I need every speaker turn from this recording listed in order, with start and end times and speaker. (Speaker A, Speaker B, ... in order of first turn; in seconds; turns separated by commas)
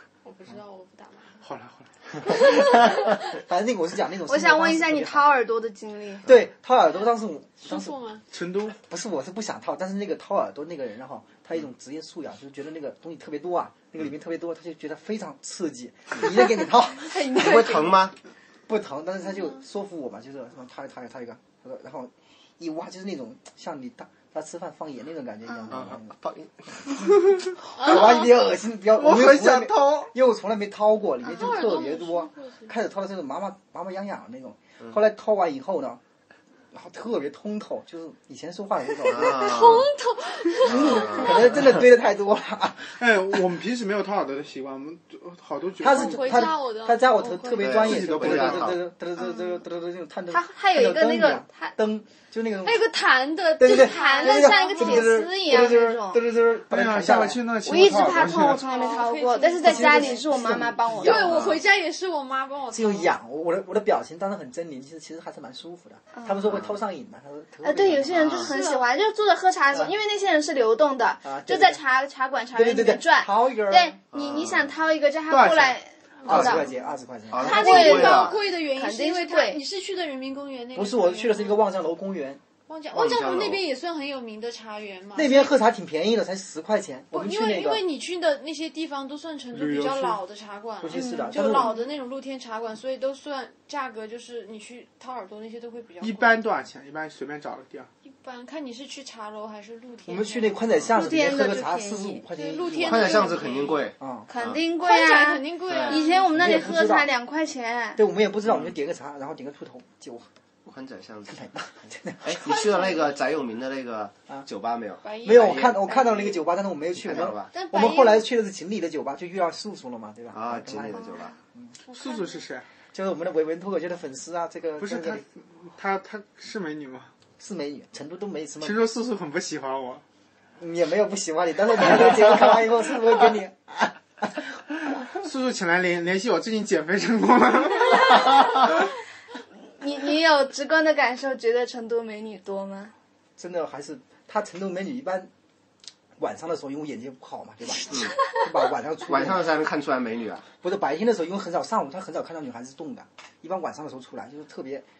Speaker A: 0.2-1.4, Speaker B: 1.4-1.9, Speaker A: 2.3-2.9, Speaker C: 3.3-5.2, Speaker D: 4.3-6.2, Speaker C: 6.2-8.0, Speaker A: 7.6-8.2, Speaker B: 8.3-8.8, Speaker C: 8.8-17.2, Speaker D: 17.0-18.0, Speaker E: 17.3-18.1, Speaker C: 18.7-26.1, Speaker E: 25.7-26.7, Speaker C: 27.6-36.0, Speaker A: 27.8-28.2, Speaker B: 28.9-30.1, Speaker A: 31.2-32.7, Speaker C: 36.7-39.8, Speaker A: 39.0-41.4, Speaker E: 39.0-39.9, Speaker C: 40.6-43.0, Speaker E: 40.6-41.5, Speaker B: 43.0-46.5, Speaker C: 45.8-52.8, Speaker A: 45.8-47.7, Speaker E: 47.6-48.8, Speaker B: 47.8-48.7, Speaker D: 49.2-49.6, Speaker D: 50.3-51.7, Speaker A: 52.6-55.3, Speaker C: 53.6-57.4, Speaker D: 53.6-56.2, Speaker B: 56.7-58.6, Speaker D: 57.6-61.4, Speaker A: 58.4-60.3, Speaker C: 59.6-61.5, Speaker A: 61.0-63.1, Speaker E: 61.2-61.6, Speaker C: 62.7-68.4, Speaker D: 66.1-66.6, Speaker E: 66.5-66.8, Speaker D: 67.6-76.7, Speaker E: 68.1-68.5, Speaker A: 68.4-68.9, Speaker C: 71.2-71.8, Speaker C: 72.5-74.0, Speaker E: 74.1-74.7, Speaker B: 75.3-75.8, Speaker C: 76.2-78.0, Speaker E: 77.3-78.4, Speaker A: 77.3-81.7, Speaker D: 77.4-79.6, Speaker C: 80.7-82.4, Speaker A: 82.7-85.5, Speaker E: 82.9-83.6, Speaker C: 85.1-87.8, Speaker A: 87.1-96.4, Speaker B: 89.5-90.2, Speaker C: 90.8-91.7, Speaker D: 90.9-91.8, Speaker B: 96.0-97.9, Speaker A: 98.0-100.7, Speaker C: 100.0-103.4, Speaker D: 100.9-102.2, Speaker A: 102.3-103.9, Speaker E: 102.8-104.6, Speaker C: 104.0-104.3, Speaker D: 104.3-108.0, Speaker A: 104.8-106.6, Speaker E: 105.7-106.0, Speaker C: 106.3-107.1, Speaker C: 108.0-110.3, Speaker E: 110.6-111.4, Speaker C: 111.3-112.4, Speaker E: 112.2-115.8, Speaker A: 112.4-113.2, Speaker A: 115.0-116.4, Speaker C: 115.2-121.7, Speaker E: 116.9-117.5, Speaker A: 117.5-118.3, Speaker E: 120.3-121.3, Speaker A: 121.9-122.4, Speaker B: 121.9-122.7, Speaker C: 122.9-125.2, Speaker B: 124.8-127.1, Speaker C: 127.4-128.8, Speaker B: 128.6-130.0, Speaker C: 130.6-134.9, Speaker B: 135.2-138.5, Speaker D: 139.8-142.9, Speaker C: 143.4-145.3, Speaker C: 146.2-149.5, Speaker E: 147.9-148.2, Speaker E: 149.1-150.4, Speaker C: 150.6-154.8